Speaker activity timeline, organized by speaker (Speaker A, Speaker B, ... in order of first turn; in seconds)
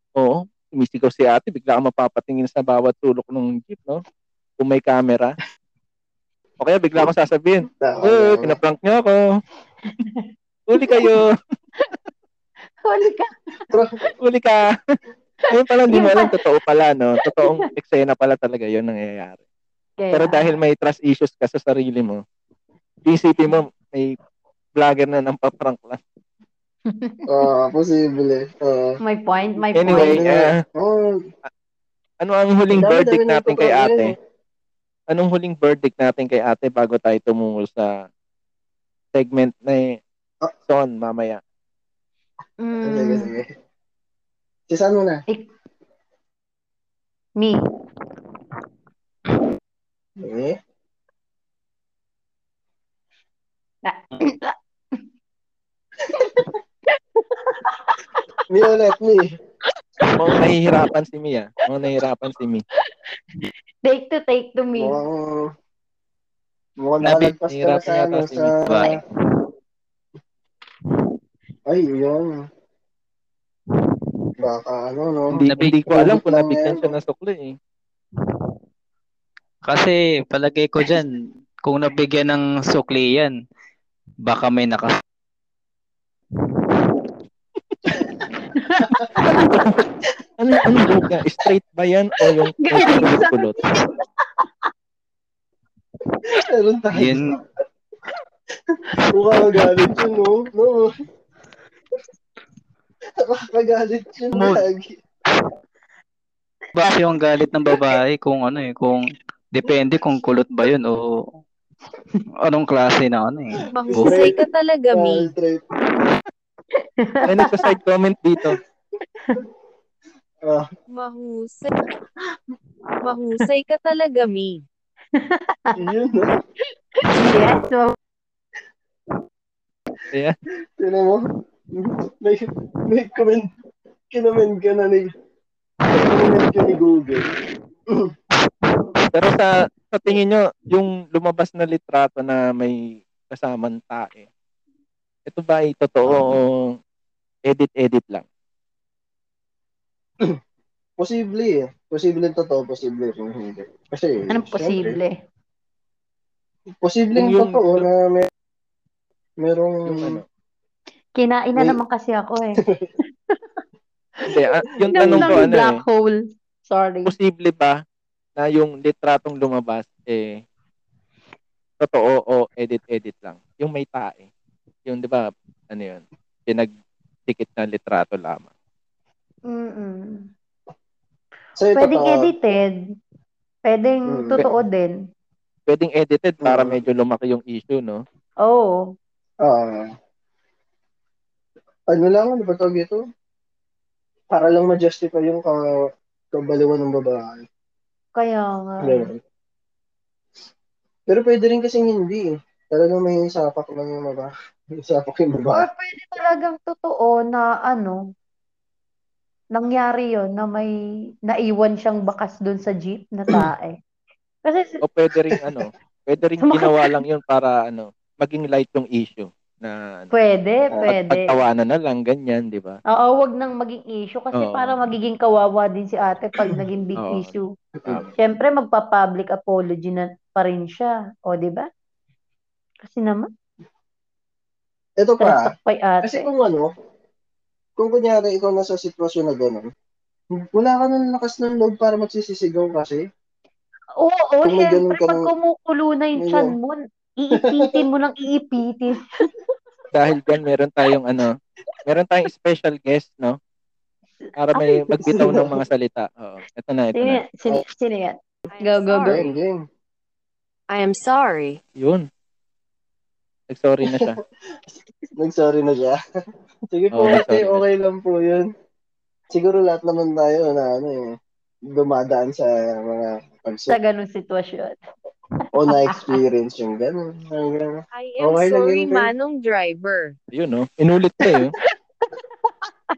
Speaker A: 0.2-4.0, 4.6-5.4, 6.6-9.2, 10.7-11.3, 14.2-14.7, 15.5-19.4, 20.1-22.2, 23.1-24.2, 24.8-26.0, 29.8-30.5, 32.2-34.1, 35.1-37.9, 39.1-39.9, 40.7-41.4, 60.1-62.6, 67.5-68.6, 75.3-77.5, 89.2-89.8, 90.4-93.6, 117.3-118.6, 130.1-130.4, 139.1-144.3, 145.3-146.7, 147.5-148.2, 157.2-157.9, 159.9-160.2, 164.3-165.8, 167.1-167.7, 168.4-170.4, 171.8-174.3, 174.9-176.7, 177.3-178.5, 185.7-188.0, 214.8-220.1, 220.9-222.8, 224.4-224.8, 227.0-227.3, 249.9-251.3, 251.8-253.4, 254.4-257.2, 261.8-262.1, 263.5-264.2, 266.9-267.6, 280.3-281.5
Speaker B: 7.8-8.6, 27.3-29.0, 29.9-31.2, 32.8-34.2, 42.8-43.5, 44.7-45.2, 50.2-50.6, 56.2-56.5, 58.5-59.2, 64.8-65.5, 66.8-68.9, 71.7-72.4, 74.4-76.9, 96.3-97.2, 98.7-100.9, 103.2-105.0, 113.9-114.4, 114.9-115.6, 125.8-126.3, 130.8-131.2, 131.8-133.5, 134.1-135.1, 135.9-137.3, 151.0-155.0, 156.8-158.3, 159.4-160.2, 162.6-162.9, 164.9-165.4, 181.6-182.3, 184.1-184.5, 186.4-186.8, 189.4-189.9, 191.9-193.0, 194.3-195.6, 196.3-197.4, 198.8-199.2, 201.1-205.7, 215.3-215.6, 227.8-228.1, 235.0-235.5, 236.0-236.7, 237.8-239.7, 240.4-243.1, 244.4-245.2, 246.2-246.5, 247.4-247.8, 255.0-255.6, 259.1-259.6, 263.8-264.2, 265.2-266.0, 266.7-268.5, 269.3-271.0, 271.7-273.8, 275.5-279.1
Speaker C: 9.9-10.3, 10.8-11.1, 12.8-13.3, 15.9-16.4, 17.3-17.6, 20.0-20.6, 26.9-27.3, 29.0-30.2, 42.6-43.3, 47.4-47.6, 53.9-54.5, 56.9-58.2, 60.0-60.4, 63.8-65.0, 88.5-89.5, 92.6-94.5, 116.8-117.4, 119.2-119.4, 125.1-125.8, 127.0-128.0, 154.3-155.1, 161.2-162.6, 164.9-167.1, 179.5-180.3, 181.8-182.8, 183.7-185.0, 188.5-188.8, 198.2-199.1, 205.5-208.0, 209.6-210.7, 211.3-213.8, 214.4-214.8, 216.4-217.0, 220.1-221.4, 222.9-227.5, 228.2-231.7, 232.8-233.3, 235.2-236.3, 244.0-249.3, 254.5-255.2, 256.9-259.3, 273.7-274.8, 275.8-276.2
Speaker D: 67.0-67.3, 68.6-69.0, 75.4-75.8, 79.7-83.4, 84.2-85.0, 96.9-97.3, 104.3-104.7, 106.8-111.2, 112.5-114.2
Speaker E: 113.7-115.3, 120.9-121.7, 123.0-124.6, 258.5-259.3, 260.7-261.6, 277.9-280.1